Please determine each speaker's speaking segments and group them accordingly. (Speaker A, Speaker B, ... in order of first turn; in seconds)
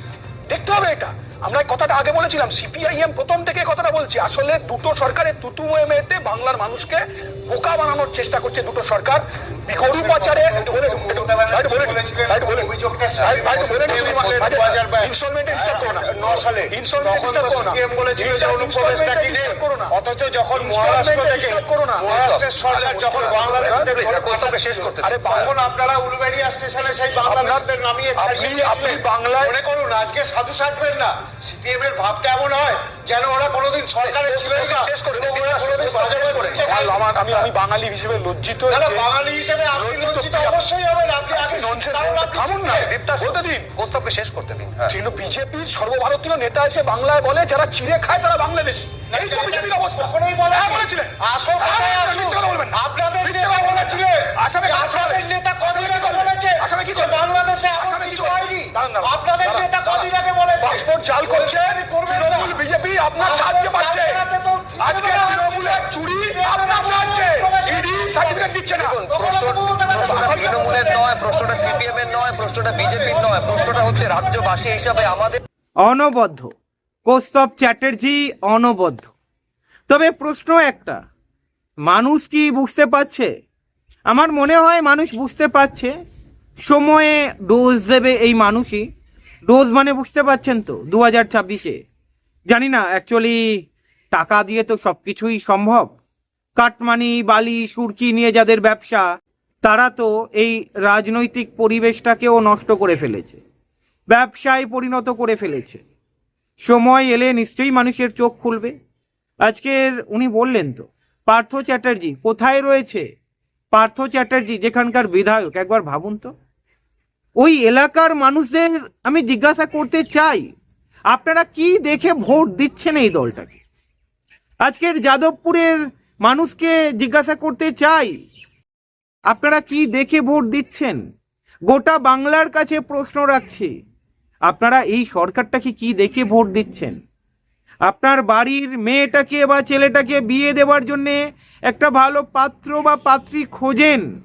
Speaker A: 0.5-19.9, 20.5-25.5, 27.2-29.6, 34.0-39.0, 39.7-40.7, 41.2-43.7, 44.9-64.2, 64.8-69.0, 70.0-70.7
Speaker B: 9.8-37.5, 38.7-43.0, 49.1-62.6, 63.2-68.5, 69.0-71.9, 72.7-74.4
Speaker C: 22.1-22.5, 23.3-25.3, 42.8-45.0, 68.8-75.4
Speaker D: 75.8-76.5, 77.0-79.1, 79.9-81.0, 81.9-83.3, 84.1-85.9, 86.7-88.9, 89.5-91.8, 92.5-93.4, 94.1-95.9, 96.6-99.1, 99.6-103.4, 104.1-105.8, 106.6-108.7, 109.5-113.1, 113.7-116.3, 117.4-120.5, 121.1-123.6, 124.6-128.1, 129.3-131.0, 131.7-133.7, 134.5-137.0, 137.8-144.1